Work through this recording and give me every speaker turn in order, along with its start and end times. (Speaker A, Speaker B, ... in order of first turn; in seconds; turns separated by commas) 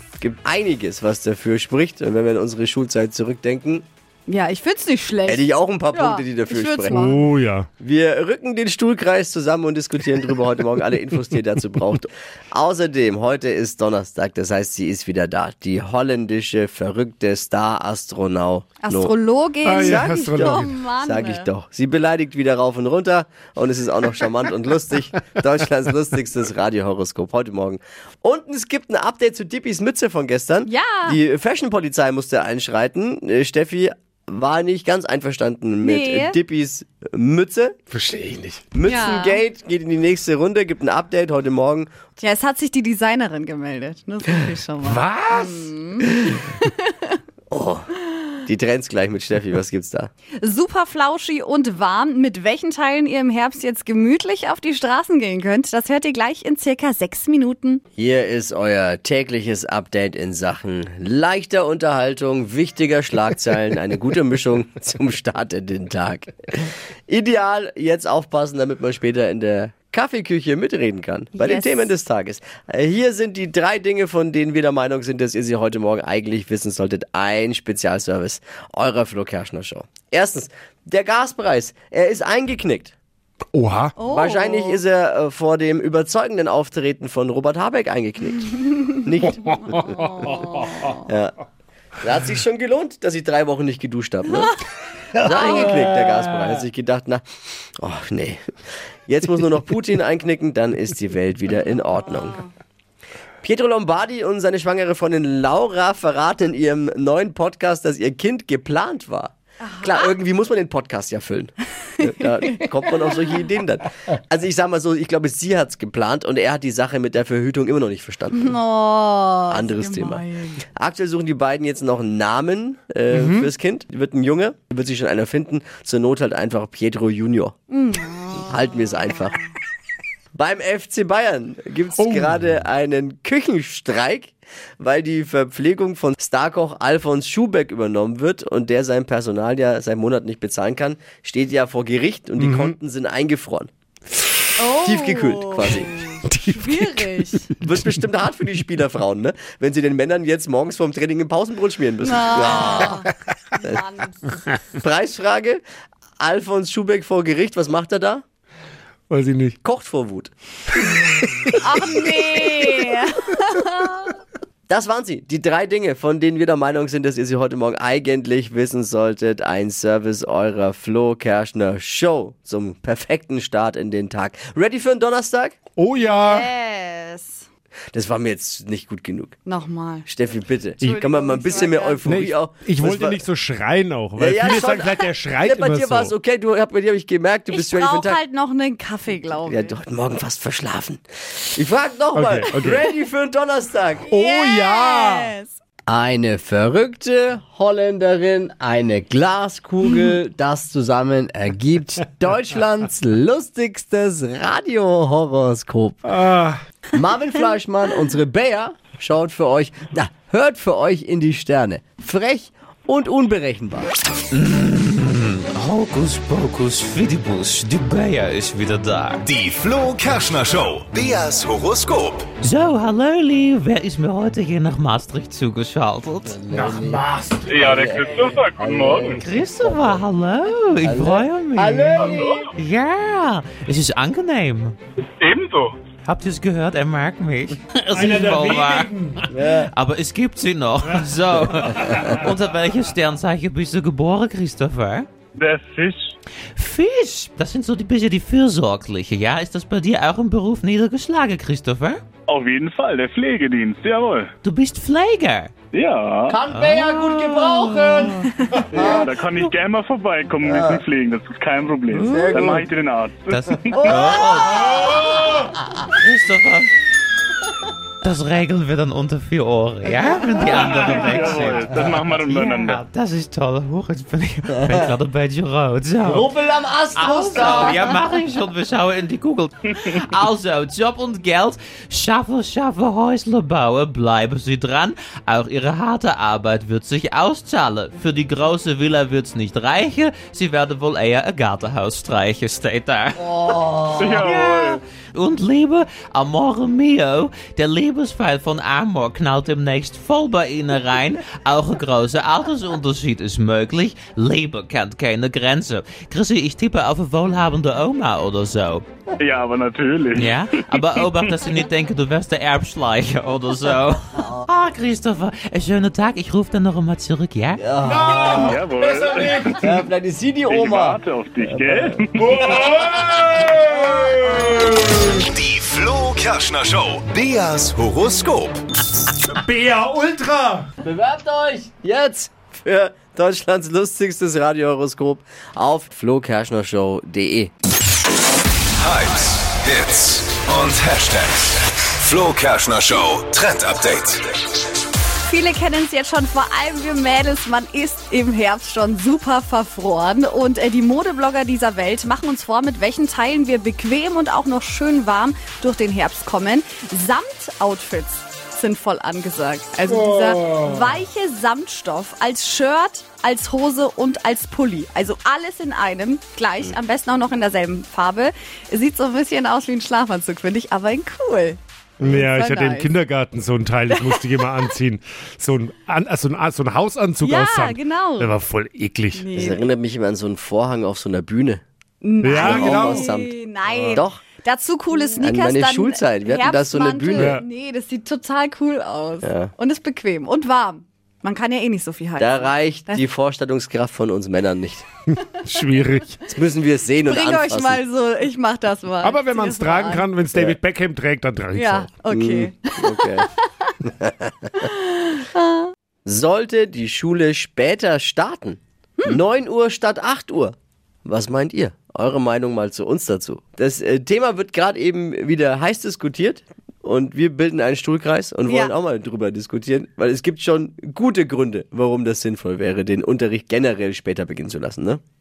Speaker A: 0.2-3.9, Speaker B: 4.3-7.2, Speaker A: 5.3-7.2, Speaker C: 6.9-7.7, Speaker A: 7.8-19.1, Speaker B: 18.8-21.5, Speaker C: 19.6-20.7, Speaker A: 19.8-37.8, Speaker B: 30.6-31.2, Speaker B: 35.8-36.4, Speaker C: 37.9-38.7, Speaker A: 38.7-41.9, Speaker B: 38.9-39.4, Speaker B: 42.2-47.2, Speaker C: 44.8-45.7, Speaker A: 47.5-47.9, Speaker A: 48.5-50.1, Speaker B: 50.4-57.8, Speaker A: 58.0-83.0, Speaker B: 71.3-71.9, Speaker C: 83.5-84.0, Speaker B: 84.0-84.8, Speaker A: 84.1-89.6, Speaker C: 89.5-90.5, Speaker B: 89.9-90.8, Speaker A: 91.1-91.3, Speaker A: 92.0-94.6, Speaker C: 95.2-96.2, Speaker A: 95.2-98.4, Speaker A: 99.1-102.4, Speaker A: 103.4-118.6, Speaker B: 109.6-110.1, Speaker B: 118.3-120.6, Speaker A: 119.5-120.2, Speaker A: 120.8-127.6, Speaker C: 123.1-123.5, Speaker B: 127.7-128.7, Speaker A: 128.5-129.4, Speaker A: 130.3-143.7, Speaker C: 132.0-132.3, Speaker C: 142.4-142.8, Speaker B: 144.6-147.5, Speaker A: 144.8-145.9, Speaker C: 146.3-147.8, Speaker A: 147.6-153.0, Speaker B: 152.0-154.4, Speaker A: 154.8-155.6, Speaker A: 156.2-158.2, Speaker C: 159.1-159.6, Speaker A: 159.6-160.3, Speaker C: 161.2-161.5, Speaker B: 161.6-164.1, Speaker A: 164.7-175.6, Speaker C: 175.8-176.5, Speaker B: 176.0-177.5, Speaker A: 177.9-179.4, Speaker B: 179.4-180.1, Speaker A: 180.1-183.2, Speaker B: 180.8-182.1, Speaker C: 182.0-186.1, Speaker A: 184.2-188.2, Speaker B: 187.5-189.8, Speaker A: 189.4-194.1, Speaker C: 192.2-192.8, Speaker B: 194.1-195.6, Speaker C: 194.1-195.3, Speaker A: 195.9-206.2, Speaker C: 206.1-206.6, Speaker A: 206.9-213.9, Speaker D: 214.3-219.3, Speaker E: 219.2-222.3, Speaker D: 222.4-226.4, Speaker A: 226.3-230.1, Speaker C: 226.5-227.5, Speaker F: 227.5-229.2, Speaker D: 229.1-234.8, Speaker A: 230.8-232.5, Speaker F: 232.0-232.5, Speaker F: 235.2-235.8, Speaker D: 236.1-239.0, Speaker C: 237.9-239.2, Speaker A: 239.3-239.7, Speaker D: 239.5-245.1, Speaker C: 241.6-242.3, Speaker F: 245.4-246.2, Speaker D: 246.6-252.0, Speaker F: 252.3-254.3, Speaker D: 254.4-255.5, Speaker F: 255.7-256.4, Speaker A: 256.3-259.5, Speaker D: 256.5-258.3, Speaker F: 258.7-264.4, Speaker A: 260.4-260.8, Speaker D: 261.9-262.3, Speaker A: 262.0-262.7, Speaker D: 263.3-265.1, Speaker D: 265.9-266.7, Speaker D: 268.0-276.3, Speaker F: 270.4-272.8, Speaker A: 274.6-274.9, Speaker A: 276.0-278.0, Speaker D: 276.9-308.8, Speaker A: 293.2-294.2, Speaker F: 294.0-294.8, Speaker F: 309.2-311.4, Speaker D: 310.2-317.6, Speaker A: 314.2-314.5, Speaker A: 317.6-318.6, Speaker C: 317.8-319.7, Speaker F: 318.3-319.9, Speaker A: 319.6-322.1, Speaker F: 320.5-322.9, Speaker C: 322.2-324.8, Speaker A: 323.5-325.0, Speaker E: 325.3-328.6, Speaker C: 329.3-330.7, Speaker A: 330.8-337.5, Speaker E: 338.8-344.3, Speaker B: 345.3-371.6, Speaker C: 359.9-360.7, Speaker C: 372.0-379.2, Speaker B: 372.2-372.9, Speaker B: 373.9-374.2, Speaker B: 377.2-378.4, Speaker B: 379.1-379.6, Speaker A: 379.3-381.6, Speaker B: 382.0-393.0, Speaker C: 382.2-383.1, Speaker A: 382.4-383.4, Speaker C: 383.7-384.0, Speaker A: 383.9-384.2, Speaker A: 385.2-387.4, Speaker C: 387.2-387.4, Speaker A: 389.2-389.5, Speaker A: 392.2-394.9, Speaker C: 395.3-396.2, Speaker A: 396.3-397.8, Speaker B: 397.1-400.1, Speaker C: 399.0-401.9, Speaker B: 401.5-403.7, Speaker A: 402.1-403.3, Speaker A: 404.0-404.3, Speaker B: 404.6-405.7, Speaker A: 406.1-410.6, Speaker A: 411.1-425.0, Speaker B: 418.5-418.7